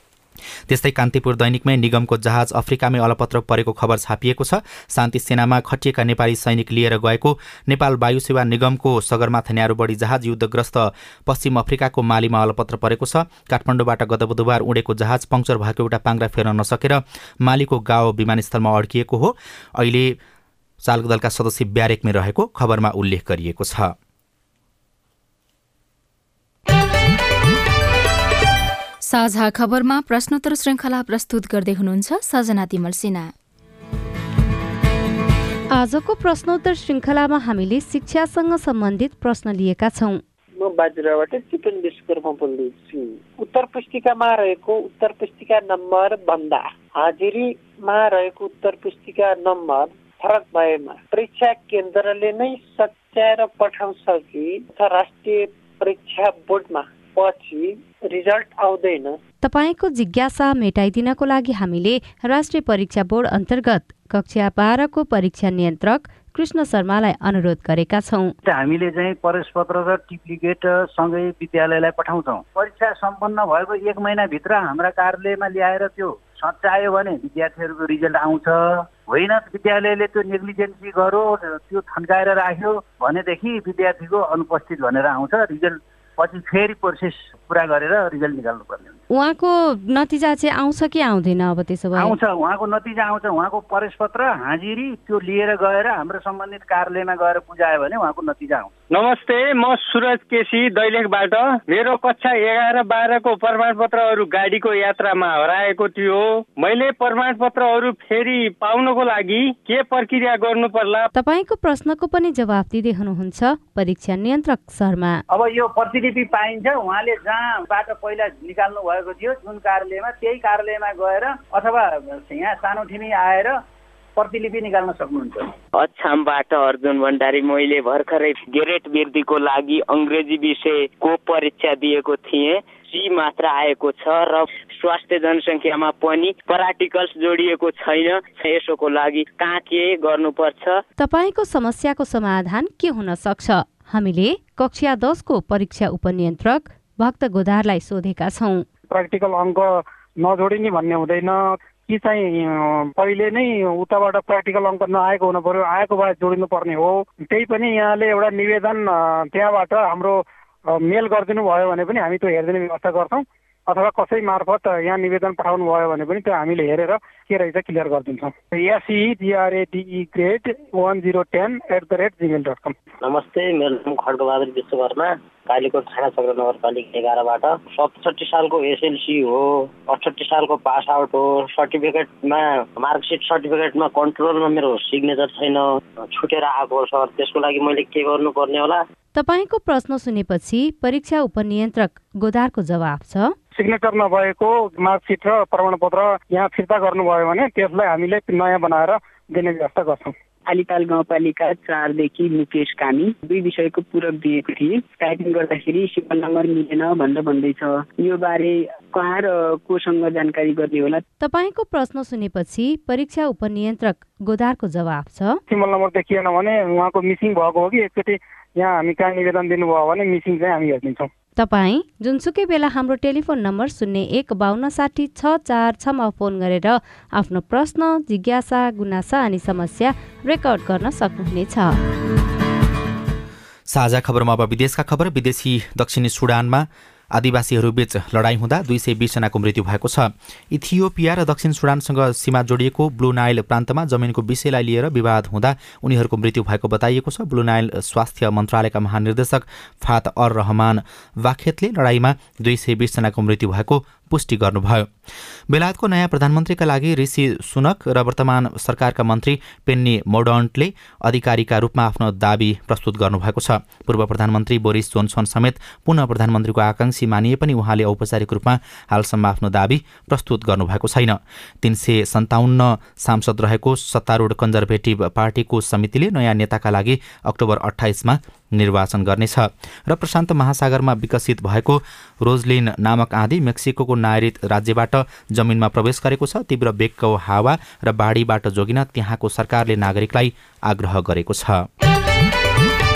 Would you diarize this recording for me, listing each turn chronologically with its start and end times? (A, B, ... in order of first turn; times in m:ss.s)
0:00.7-0:20.2 A
0:20.8-0:23.9 A
0:29.1-0:33.3 B
0:35.7-0:40.2 C
0:40.6-0:59.2 D
0:59.4-1:08.3 C
1:08.4-1:29.0 E
1:29.1-1:32.2 C
1:32.0-1:38.7 E
1:39.0-1:51.0 F
1:51.1-1:55.2 C
1:55.3-2:03.6 E
2:04.2-2:05.5 E
2:05.8-2:20.8 G
2:21.0-2:28.6 C
2:28.9-2:29.7 H
2:30.2-2:31.4 H
2:31.9-2:40.2 H
2:40.7-2:52.8 H
2:53.0-3:08.8 I
3:09.2-3:13.4 C
3:13.6-3:20.1 H
3:20.5-3:31.0 J
3:31.2-3:35.4 C
3:35.5-3:41.1 H
3:41.4-3:51.8 C
3:53.7-4:14.9 A
4:15.5-4:51.7 A